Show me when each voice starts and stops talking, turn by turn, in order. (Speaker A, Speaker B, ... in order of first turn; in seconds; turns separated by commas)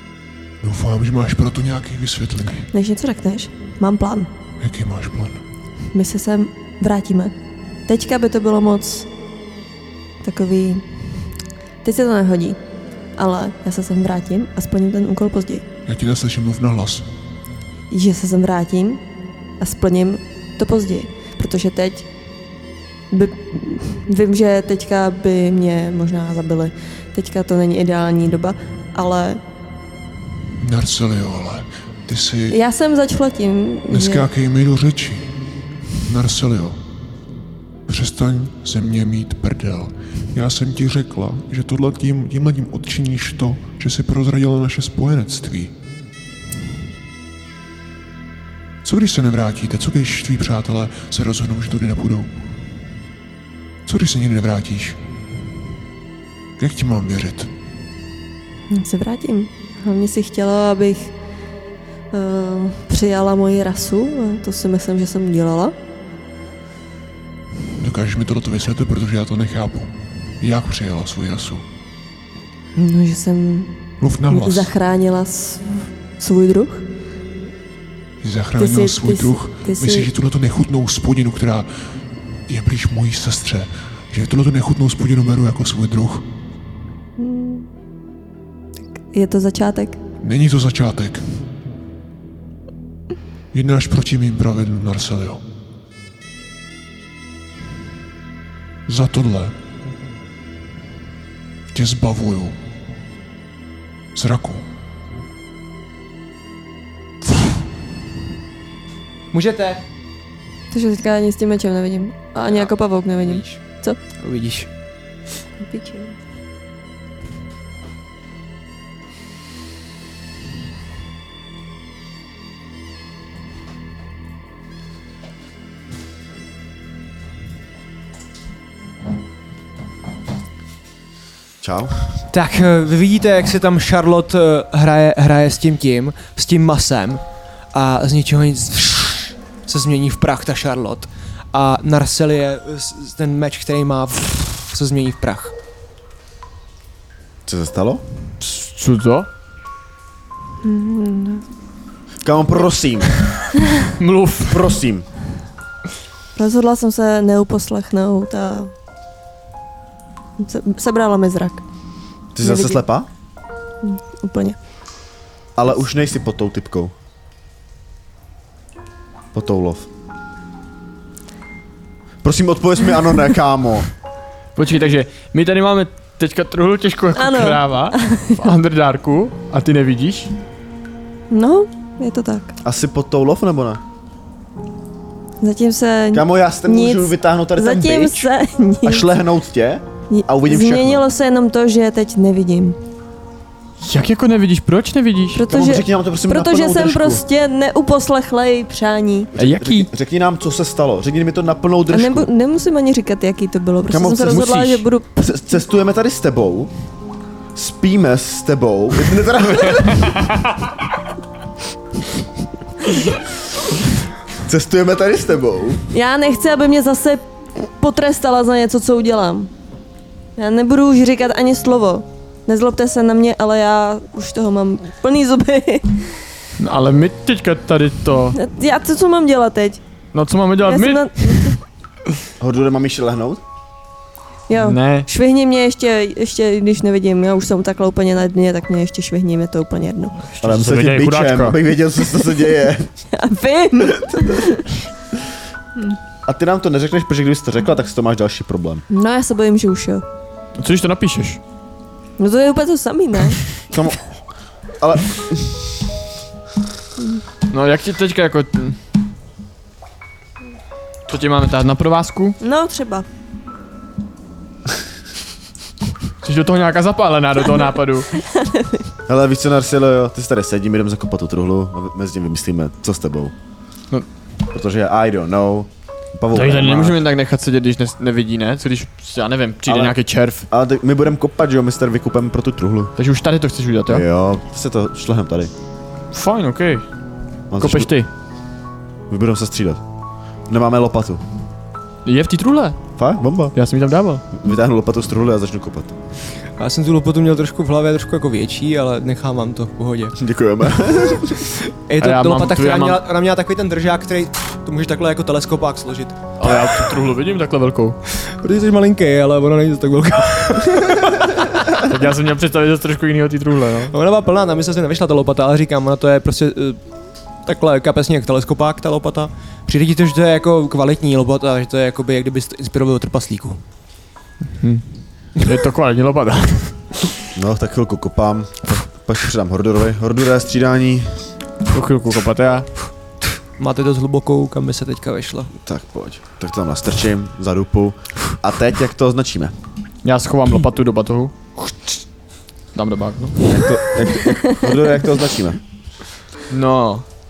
Speaker A: 0.6-2.7, Speaker B: 2.7-4.3, Speaker A: 4.6-5.4, Speaker B: 5.9-7.3, Speaker B: 7.9-9.1, Speaker B: 10.2-10.9, Speaker B: 11.8-12.6, Speaker B: 13.2-15.7, Speaker A: 15.9-17.1, Speaker B: 17.9-19.0, Speaker B: 19.6-22.1, Speaker B: 23.1-29.4, Speaker A: 30.6-32.6, Speaker B: 32.5-34.3, Speaker A: 33.9-35.4, Speaker A: 36.0-36.8, Speaker A: 37.9-45.8, Speaker A: 48.8-52.4, Speaker A: 53.9-55.0, Speaker A: 56.6-57.5, Speaker B: 58.7-61.1, Speaker B: 62.1-65.8, Speaker A: 67.8-71.6, Speaker B: 72.8-76.9, Speaker A: 74.0-74.7, Speaker A: 78.2-81.7, Speaker B: 78.6-80.1, Speaker A: 82.5-86.3, Speaker B: 87.2-87.7, Speaker B: 89.1-90.0, Speaker A: 90.2-91.3, Speaker A: 93.5-95.4, Speaker A: 98.9-99.6, Speaker A: 101.7-102.6, Speaker A: 104.1-104.7, Speaker C: 109.3-109.8, Speaker B: 110.7-114.0, Speaker C: 112.4-113.6, Speaker C: 114.2-114.7, Speaker B: 115.6-116.2, Speaker D: 131.6-132.0, Speaker C: 132.3-145.5, Speaker D: 147.5-148.0, Speaker E: 148.4-149.3, Speaker B: 150.6-151.4, Speaker D: 152.2-153.1, Speaker E: 154.0-154.6, Speaker D: 154.4-155.1, Speaker B: 156.4-158.7, Speaker B: 160.4-161.6, Speaker D: 162.3-163.1, Speaker B: 162.4-162.8, Speaker B: 163.8-164.6, Speaker D: 165.6-166.9, Speaker D: 169.3-169.9, Speaker D: 172.2-173.9, Speaker E: 174.6-180.3, Speaker B: 177.2-178.5, Speaker B: 181.3-182.6, Speaker D: 182.6-183.8, Speaker B: 185.4-189.1, Speaker D: 186.1-188.3, Speaker D: 188.8-191.0, Speaker B: 190.1-192.8, Speaker E: 193.8-195.4, Speaker B: 195.3-199.3, Speaker D: 195.4-197.2, Speaker D: 199.3-202.3, Speaker E: 199.4-199.9, Speaker B: 201.9-205.4, Speaker D: 203.9-204.5, Speaker E: 204.3-204.8, Speaker D: 205.2-206.7, Speaker D: 207.6-210.2, Speaker D: 214.4-215.8, Speaker B: 215.9-219.5, Speaker B: 220.4-226.2, Speaker E: 226.6-228.4, Speaker B: 228.3-229.8, Speaker E: 230.1-231.5, Speaker B: 230.6-231.6, Speaker D: 232.4-233.4, Speaker B: 234.5-240.2, Speaker E: 234.6-235.1, Speaker E: 240.2-241.6, Speaker D: 240.4-242.9, Speaker B: 243.1-244.7, Speaker D: 246.3-248.8, Speaker B: 248.9-250.0, Speaker E: 250.6-251.4, Speaker B: 252.2-253.5, Speaker D: 253.7-254.0, Speaker D: 254.8-255.8, Speaker E: 257.5-258.8, Speaker E: 261.1-262.4, Speaker B: 262.4-263.1, Speaker E: 266.2-268.1, Speaker B: 268.2-268.8, Speaker D: 269.1-273.3, Speaker D: 274.5-277.0, Speaker E: 276.3-280.5, Speaker D: 279.6-280.0, Speaker D: 280.5-282.9, Speaker E: 283.0-284.0, Speaker D: 283.9-285.5, Speaker E: 286.1-286.9, Speaker D: 287.5-287.9, Speaker E: 287.6-288.1, Speaker D: 289.1-289.8, Speaker D: 290.5-291.2, Speaker E: 292.1-292.8, Speaker D: 293.0-293.6, Speaker E: 293.6-294.2, Speaker D: 294.3-296.0, Speaker C: 296.6-300.1, Speaker D: 300.2-301.5, Speaker C: 301.9-306.2, Speaker E: 302.0-303.0, Speaker E: 306.4-308.0, Speaker C: 308.2-311.6, Speaker E: 311.7-313.9, Speaker C: 313.9-316.8, Speaker C: 317.4-323.6, Speaker E: 324.6-324.8, Speaker E: 325.4-327.1, Speaker D: 327.4-331.2, Speaker E: 331.7-332.7, Speaker C: 333.6-335.5, Speaker D: 335.5-339.5, Speaker E: 340.0-341.4, Speaker E: 342.7-343.7, Speaker D: 343.5-345.6, Speaker B: 344.3-344.6, Speaker E: 346.5-347.1